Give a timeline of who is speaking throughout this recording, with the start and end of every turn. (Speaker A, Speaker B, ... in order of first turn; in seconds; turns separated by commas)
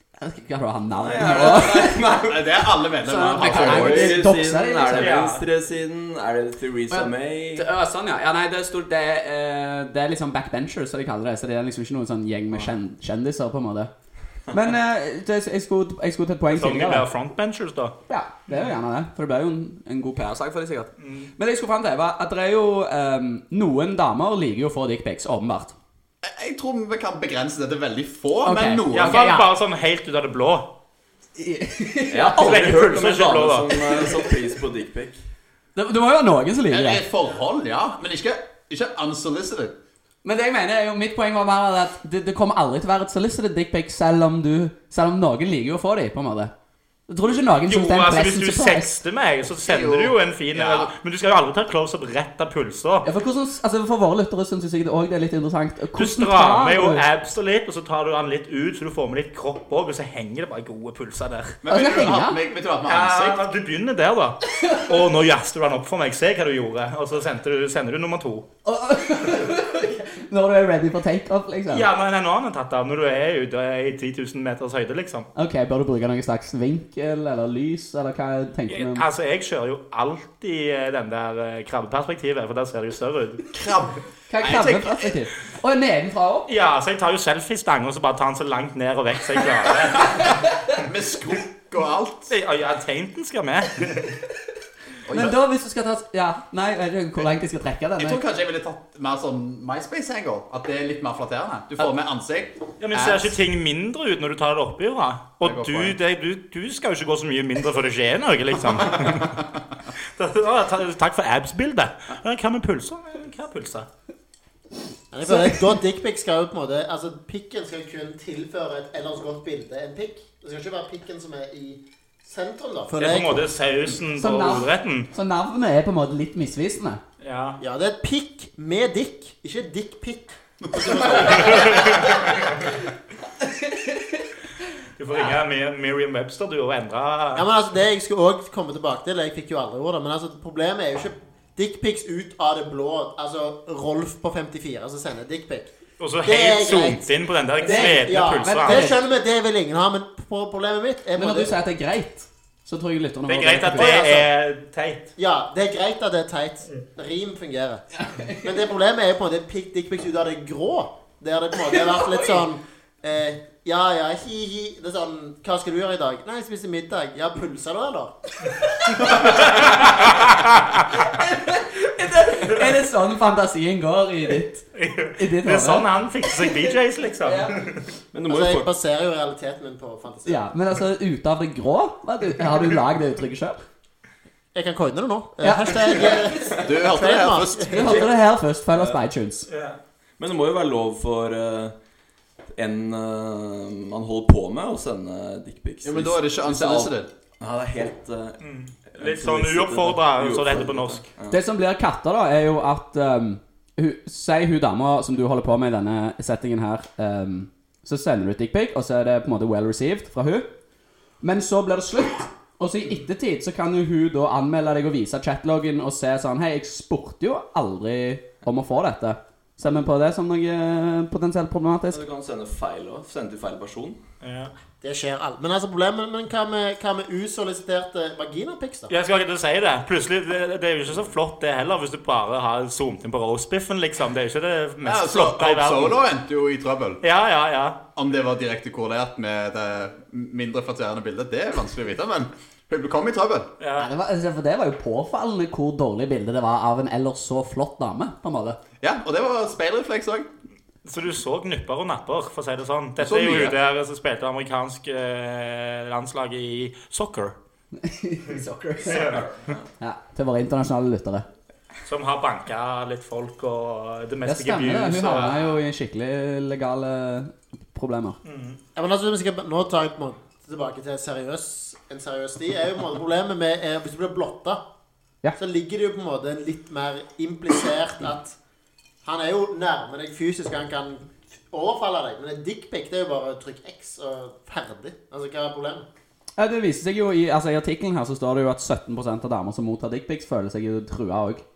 Speaker A: 0.2-2.3, Speaker B: 0.9-2.4, Speaker C: 2.2-4.2, Speaker A: 3.0-5.4, Speaker B: 3.4-7.7, Speaker D: 4.9-5.4, Speaker A: 6.9-13.9, Speaker A: 14.5-17.1, Speaker D: 16.5-17.9, Speaker A: 18.1-25.7, Speaker D: 21.0-21.3, Speaker C: 26.2-29.2, Speaker A: 28.4-29.5, Speaker D: 28.9-30.7, Speaker A: 31.4-32.4, Speaker B: 32.1-35.2, Speaker D: 32.4-33.9, Speaker A: 35.8-37.0, Speaker C: 36.7-39.8, Speaker A: 40.2-46.5, Speaker A: 47.1-49.0, Speaker D: 47.7-53.0, Speaker C: 49.6-50.9, Speaker A: 53.0-57.0, Speaker D: 56.0-61.6, Speaker C: 61.6-63.4, Speaker A: 61.7-62.4, Speaker D: 62.8-68.5, Speaker A: 68.6-71.9, Speaker D: 71.7-75.3, Speaker A: 75.3-79.0, Speaker D: 78.7-83.5, Speaker C: 83.5-85.2, Speaker A: 84.3-86.5, Speaker D: 86.5-90.3, Speaker C: 90.7-92.3, Speaker D: 92.3-94.1, Speaker C: 95.0-95.3, Speaker A: 95.1-98.2, Speaker C: 98.0-103.3, Speaker D: 102.8-109.4, Speaker C: 105.4-106.0, Speaker C: 109.2-109.5, Speaker D: 110.0-113.9, Speaker E: 115.1-123.4, Speaker A: 115.2-115.8, Speaker D: 123.0-125.1, Speaker A: 124.2-127.0, Speaker D: 127.2-127.6, Speaker E: 127.6-132.1, Speaker C: 130.6-131.9, Speaker D: 131.0-132.4, Speaker A: 133.6-134.0, Speaker D: 135.0-137.4, Speaker E: 137.3-145.7, Speaker D: 146.0-148.9, Speaker E: 146.2-147.1, Speaker E: 147.6-151.6, Speaker A: 147.6-149.0, Speaker A: 151.2-154.1, Speaker D: 153.3-155.1, Speaker E: 153.7-154.2, Speaker E: 155.2-168.2, Speaker A: 157.9-158.5, Speaker A: 161.6-162.4, Speaker E: 169.0-169.7, Speaker D: 169.2-170.9, Speaker A: 171.1-174.6, Speaker D: 174.7-177.9, Speaker A: 175.2-176.7, Speaker A: 177.2-177.6, Speaker B: 178.1-178.7, Speaker E: 178.2-180.4, Speaker A: 180.2-183.6, Speaker E: 184.5-188.1, Speaker A: 185.4-186.2, Speaker C: 186.6-188.1, Speaker A: 187.7-189.5, Speaker B: 188.7-189.0, Speaker D: 189.5-189.8, Speaker B: 190.2-191.7, Speaker B: 192.5-201.4, Speaker C: 195.8-197.1, Speaker D: 198.4-201.1, Speaker A: 201.3-210.5, Speaker A: 211.2-222.0, Speaker B: 221.9-224.0, Speaker D: 224.2-224.5, Speaker E: 224.8-228.9, Speaker D: 228.9-236.0, Speaker C: 234.8-237.0, Speaker D: 237.0-237.8, Speaker C: 237.9-243.5, Speaker D: 243.6-243.9, Speaker A: 243.8-248.6, Speaker C: 248.8-250.3, Speaker D: 250.8-257.4, Speaker C: 253.0-253.6, Speaker A: 257.8-259.3, Speaker D: 258.8-259.3, Speaker B: 259.0-259.6, Speaker A: 259.8-261.2, Speaker D: 261.9-265.5, Speaker A: 264.2-268.2, Speaker D: 268.2-268.6, Speaker E: 268.8-274.6, Speaker E: 275.4-278.4, Speaker E: 279.0-285.9, Speaker A: 286.4-291.4